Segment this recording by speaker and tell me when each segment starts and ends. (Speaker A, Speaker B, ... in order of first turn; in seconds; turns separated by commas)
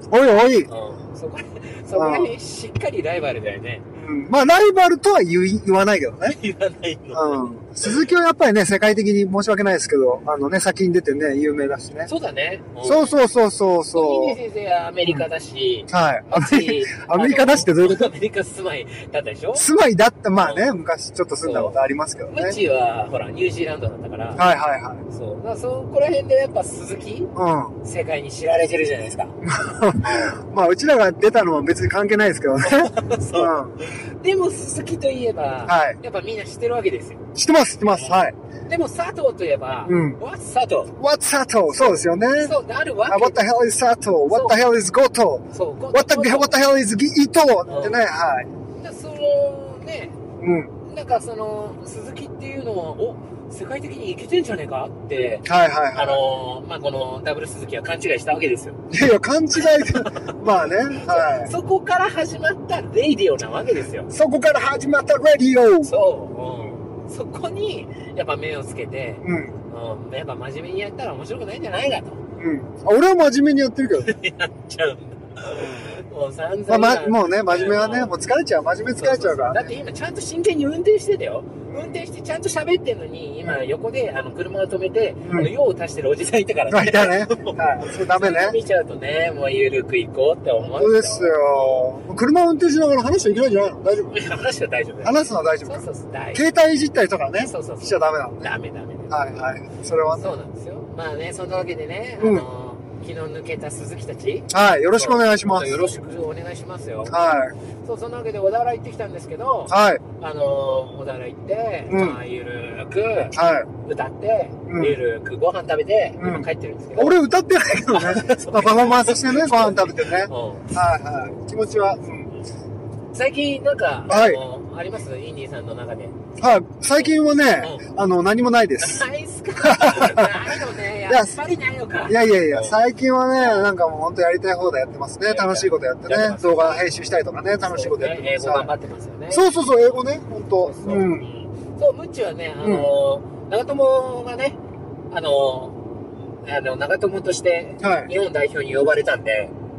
Speaker A: 0.1-0.7, Speaker B: 0.7-3.8, Speaker A: 1.9-2.4, Speaker A: 3.9-6.4, Speaker B: 6.2-8.0, Speaker A: 7.1-12.1, Speaker B: 12.1-13.1, Speaker A: 12.8-14.4, Speaker B: 13.9-19.6, Speaker A: 15.9-18.1, Speaker A: 19.5-22.6, Speaker B: 20.4-20.8, Speaker B: 21.4-24.4, Speaker A: 24.4-25.0, Speaker B: 25.1-27.3, Speaker A: 27.3-27.7, Speaker B: 27.8-29.3, Speaker A: 29.4-33.8, Speaker B: 32.6-37.2, Speaker A: 35.6-36.0, Speaker A: 37.3-38.3, Speaker B: 37.9-40.9, Speaker A: 39.8-40.2, Speaker A: 41.0-42.5, Speaker B: 41.7-43.5, Speaker A: 43.1-48.5, Speaker B: 44.3-44.6, Speaker B: 45.5-46.6, Speaker B: 47.7-48.0, Speaker B: 48.8-50.1, Speaker A: 50.4-50.7, Speaker B: 50.9-58.8, Speaker A: 55.4-56.2, Speaker A: 58.9-61.5, Speaker B: 59.8-60.3, Speaker B: 60.9-64.1, Speaker A: 64.1-65.9, Speaker B: 65.8-72.2, Speaker A: 69.2-69.6, Speaker A: 72.4-74.1, Speaker B: 74.0-78.1, Speaker A: 75.5-75.9, Speaker A: 76.7-79.7, Speaker B: 79.0-91.9, Speaker A: 81.7-82.0, Speaker A: 85.2-85.5, Speaker A: 86.7-88.6, Speaker A: 90.6-94.2, Speaker B: 94.1-96.4, Speaker A: 95.0-98.5, Speaker B: 97.4-99.2, Speaker A: 99.1-100.3, Speaker B: 100.1-107.2, Speaker A: 102.2-102.5, Speaker A: 104.5-105.8, Speaker A: 107.1-107.5, Speaker B: 107.8-117.2, Speaker A: 109.7-110.0, Speaker A: 111.9-112.2, Speaker A: 113.3-113.7, Speaker A: 114.7-115.0, Speaker A: 116.2-122.3, Speaker B: 117.9-120.8, Speaker B: 123.1-126.3, Speaker A: 124.1-124.4, Speaker A: 126.4-129.0, Speaker B: 127.0-127.8, Speaker B: 128.8-132.8, Speaker A: 129.6-130.5, Speaker A: 131.1-131.3, Speaker A: 132.0-138.7, Speaker B: 133.4-133.7, Speaker B: 135.2-136.8, Speaker B: 137.7-140.0, Speaker A: 139.3-141.3, Speaker B: 140.6-144.6, Speaker A: 142.6-142.9, Speaker B: 145.1-145.9, Speaker B: 146.4-149.5, Speaker A: 147.8-148.1